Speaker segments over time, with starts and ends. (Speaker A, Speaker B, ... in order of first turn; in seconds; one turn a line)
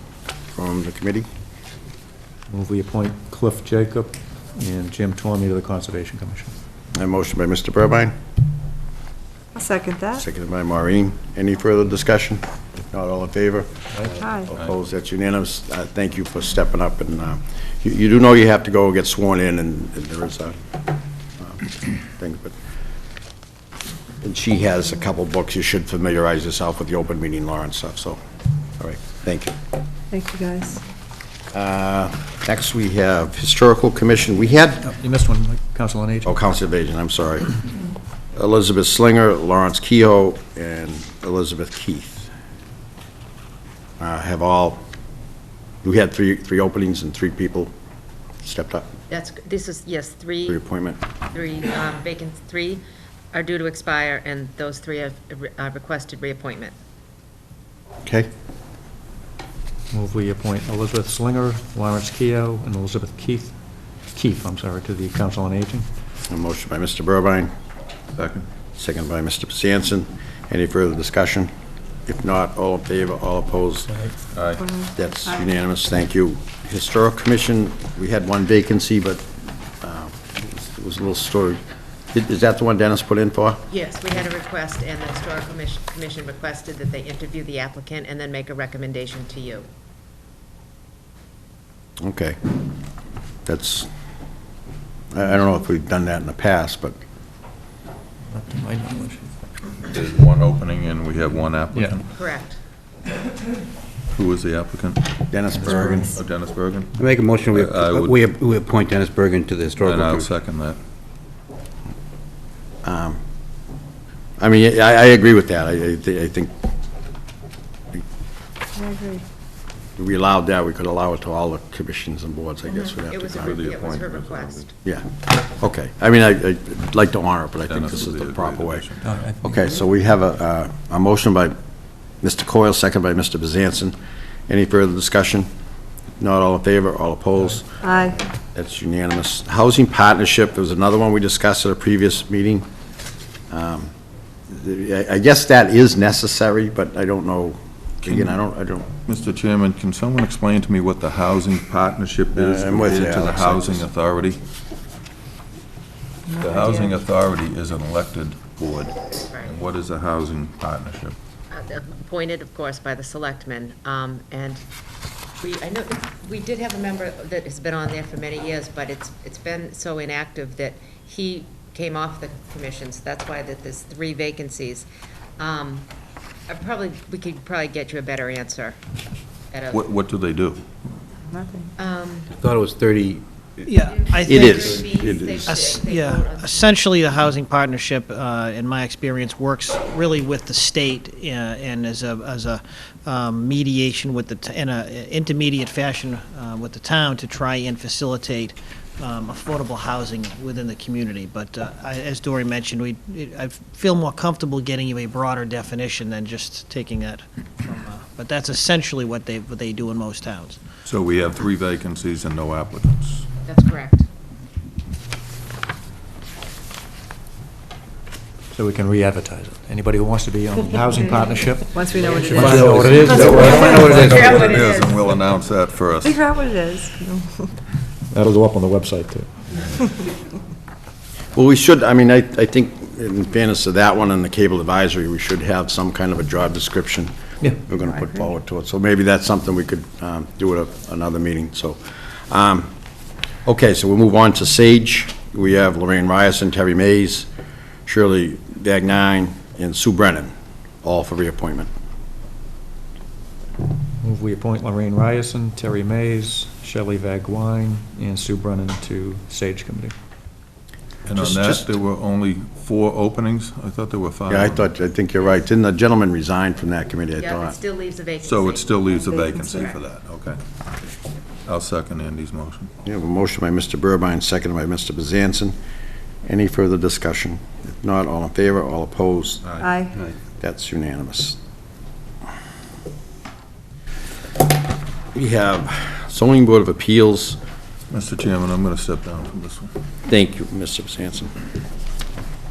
Speaker A: 0.6-1.2
Speaker B: 2.5-6.5
Speaker A: 6.9-8.1
Speaker C: 9.5-10.2
Speaker A: 10.1-13.7
Speaker A: 14.2-20.6
Speaker C: 14.2-14.5
Speaker A: 21.4-22.5
Speaker A: 24.2-28.2
Speaker A: 28.8-29.5
Speaker C: 30.1-30.8
Speaker A: 31.5-34.9
Speaker B: 34.9-36.3
Speaker A: 36.2-37.6
Speaker A: 38.3-42.3
Speaker A: 44.0-44.8
Speaker A: 45.8-47.7
Speaker A: 48.4-48.9
Speaker D: 49.1-50.6
Speaker A: 50.5-51.0
Speaker D: 51.3-52.8
Speaker D: 53.3-56.7
Speaker B: 59.9-63.5
Speaker B: 64.1-65.8
Speaker A: 66.3-67.5
Speaker E: 68.2-68.5
Speaker A: 68.8-71.5
Speaker A: 72.0-73.9
Speaker E: 74.3-74.6
Speaker A: 74.8-79.3
Speaker A: 79.8-81.6
Speaker A: 82.1-83.6
Speaker D: 83.7-89.7
Speaker A: 92.0-92.4
Speaker A: 93.5-93.9
Speaker A: 95.1-97.0
Speaker B: 98.3-99.3
Speaker E: 99.8-102.0
Speaker B: 101.7-102.0
Speaker D: 102.1-102.6
Speaker E: 104.1-107.0
Speaker A: 105.3-106.1
Speaker B: 105.5-106.1
Speaker F: 107.0-110.3
Speaker E: 107.5-108.2
Speaker E: 109.8-110.8
Speaker A: 112.8-113.2
Speaker A: 114.4-116.5
Speaker C: 118.8-119.2
Speaker A: 120.0-123.6
Speaker D: 122.7-124.7
Speaker E: 123.3-124.7
Speaker A: 124.8-128.9
Speaker E: 127.7-129.0
Speaker B: 129.0-129.7
Speaker A: 129.4-131.5
Speaker A: 132.2-133.9
Speaker A: 134.5-135.5
Speaker A: 136.2-137.8
Speaker C: 137.8-138.1
Speaker A: 138.5-142.7
Speaker A: 143.5-143.9
Speaker A: 144.5-148.9
Speaker E: 148.1-148.4
Speaker E: 149.0-154.4
Speaker A: 152.3-153.8
Speaker E: 156.4-161.1
Speaker D: 159.3-159.6
Speaker D: 161.5-164.6
Speaker D: 165.4-174.8
Speaker D: 175.4-175.9
Speaker D: 176.5-178.8
Speaker D: 179.5-179.8
Speaker E: 179.7-180.6
Speaker C: 181.3-181.6
Speaker D: 181.8-182.3
Speaker F: 182.3-183.7
Speaker G: 183.7-184.4
Speaker D: 183.8-186.9
Speaker A: 184.2-185.5
Speaker F: 184.4-185.4
Speaker G: 185.5-192.5
Speaker G: 193.1-210.5
Speaker E: 210.8-213.3
Speaker D: 213.4-214.1
Speaker B: 218.5-224.4
Speaker C: 221.7-222.7
Speaker F: 222.3-224.1
Speaker D: 222.9-225.1
Speaker E: 223.4-226.3
Speaker C: 226.0-227.4
Speaker B: 228.1-229.3
Speaker A: 231.3-242.7
Speaker A: 243.4-247.3
Speaker A: 247.8-250.3
Speaker A: 250.8-251.7
Speaker B: 254.0-259.9
Speaker E: 261.1-264.7
Speaker A: 261.1-261.7
Speaker A: 264.3-267.6
Speaker D: 267.1-269.6
Speaker E: 268.2-270.4
Speaker E: 271.4-272.7
Speaker A: 272.8-275.5
Speaker A: 276.2-279.4
Speaker C: 279.6-279.9
Speaker A: 280.4-281.4
Speaker A: 285.1-287.4
Speaker E: 287.9-289.7
Speaker A: 290.1-291.3